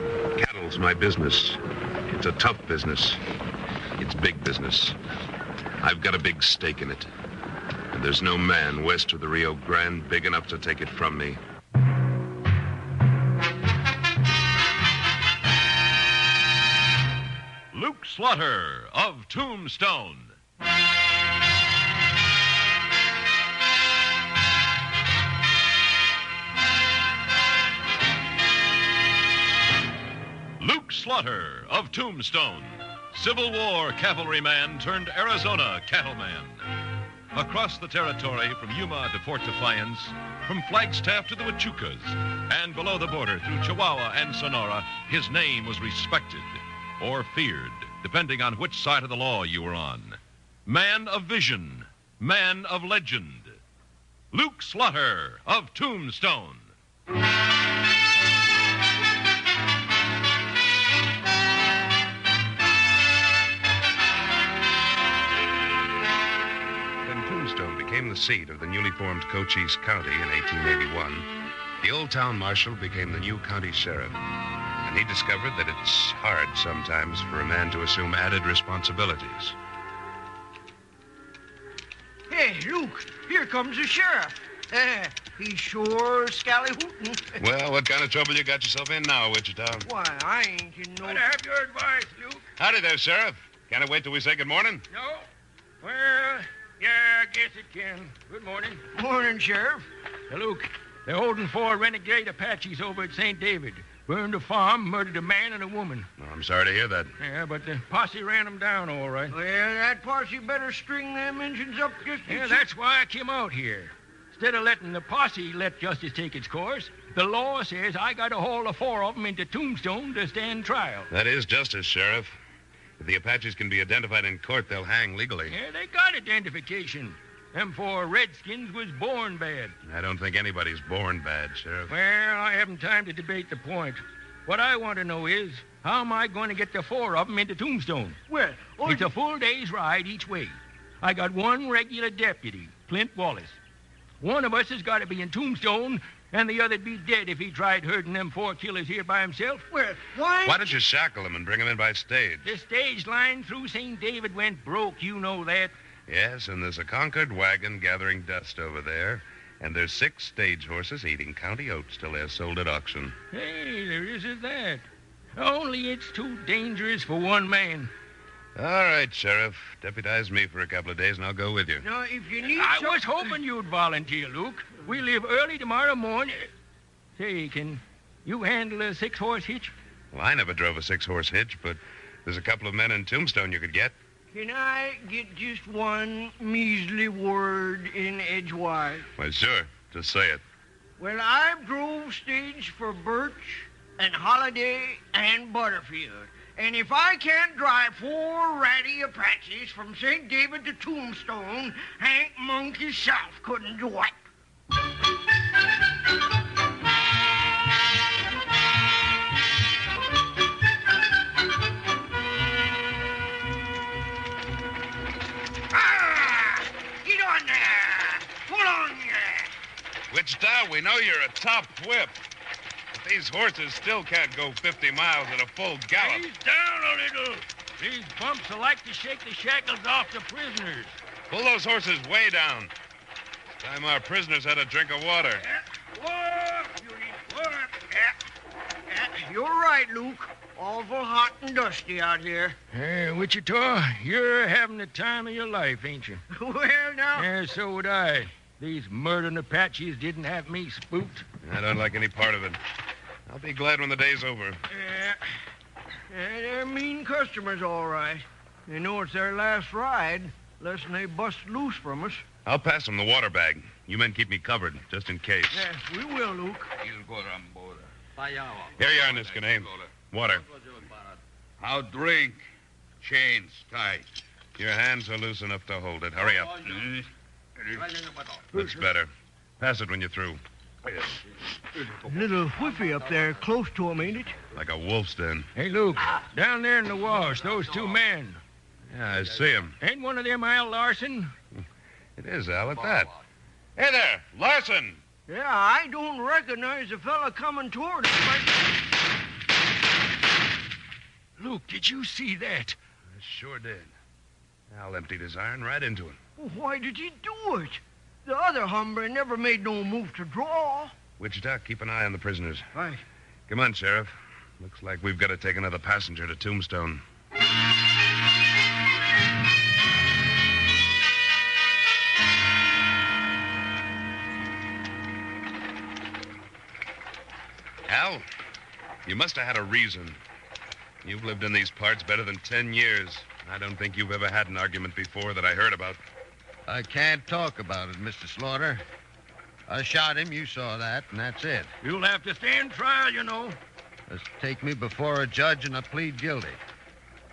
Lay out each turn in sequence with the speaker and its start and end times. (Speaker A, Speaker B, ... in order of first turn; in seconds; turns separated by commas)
Speaker A: 0.3-3.2, Speaker A: 4.0-5.0, Speaker A: 5.8-7.1, Speaker A: 7.9-11.4, Speaker B: 17.7-20.3, Speaker B: 30.6-36.6, Speaker B: 37.3-53.6, Speaker B: 54.3-56.7, Speaker A: 67.0-71.3, Speaker A: 71.8-74.2, Speaker A: 74.8-79.5, Speaker C: 82.3-87.4, Speaker A: 87.4-89.8, Speaker C: 89.8-91.2, Speaker D: 91.0-92.5, Speaker A: 92.6-94.8, Speaker D: 94.9-95.3, Speaker D: 95.8-98.8, Speaker C: 98.9-99.8, Speaker D: 100.3-106.1, Speaker A: 106.2-107.1, Speaker D: 107.2-109.3, Speaker C: 109.3-112.6, Speaker D: 112.3-121.1, Speaker A: 121.1-122.3, Speaker A: 123.0-125.5, Speaker D: 125.5-129.7, Speaker A: 129.8-131.9, Speaker D: 131.9-138.2, Speaker C: 138.3-139.1, Speaker D: 138.8-143.6, Speaker D: 144.2-149.7, Speaker C: 149.7-150.8, Speaker A: 150.4-152.5, Speaker D: 152.4-155.7, Speaker A: 156.1-163.1, Speaker D: 163.3-164.8, Speaker D: 165.3-167.9, Speaker A: 168.6-171.8, Speaker C: 171.8-173.1, Speaker D: 172.6-176.5, Speaker D: 177.2-179.7, Speaker A: 180.1-183.9, Speaker C: 184.3-189.1, Speaker A: 189.2-190.4, Speaker C: 191.0-204.1, Speaker C: 215.7-219.5, Speaker A: 220.1-222.2, Speaker A: 222.9-226.2, Speaker D: 225.9-231.0, Speaker A: 231.3-232.7, Speaker A: 233.6-235.4, Speaker C: 236.0-238.2, Speaker C: 238.9-242.6, Speaker D: 242.7-246.2, Speaker C: 246.3-247.3, Speaker D: 247.1-251.2, Speaker A: 251.4-252.6, Speaker A: 253.3-254.6, Speaker C: 254.7-255.3, Speaker C: 256.1-262.2, Speaker A: 262.4-265.6, Speaker C: 265.5-266.7, Speaker E: 266.8-267.8, Speaker A: 268.7-270.5, Speaker E: 271.6-272.4, Speaker E: 273.0-274.1, Speaker A: 274.6-276.8, Speaker E: 276.7-277.0, Speaker A: 278.5-280.4, Speaker C: 282.0-284.4, Speaker A: 284.5-285.5, Speaker D: 285.6-288.4, Speaker A: 288.9-289.8, Speaker D: 289.8-291.3, Speaker A: 292.2-293.1, Speaker A: 293.8-295.0, Speaker C: 295.3-298.7, Speaker D: 301.4-302.8, Speaker A: 303.1-303.9, Speaker A: 304.7-306.2, Speaker C: 306.4-310.9, Speaker A: 311.2-312.7, Speaker C: 312.7-313.0, Speaker A: 313.5-317.0, Speaker A: 327.9-328.2, Speaker A: 329.1-330.2, Speaker A: 331.0-336.0, Speaker F: 336.7-338.8, Speaker F: 339.7-341.7, Speaker D: 341.8-343.6, Speaker F: 344.1-346.6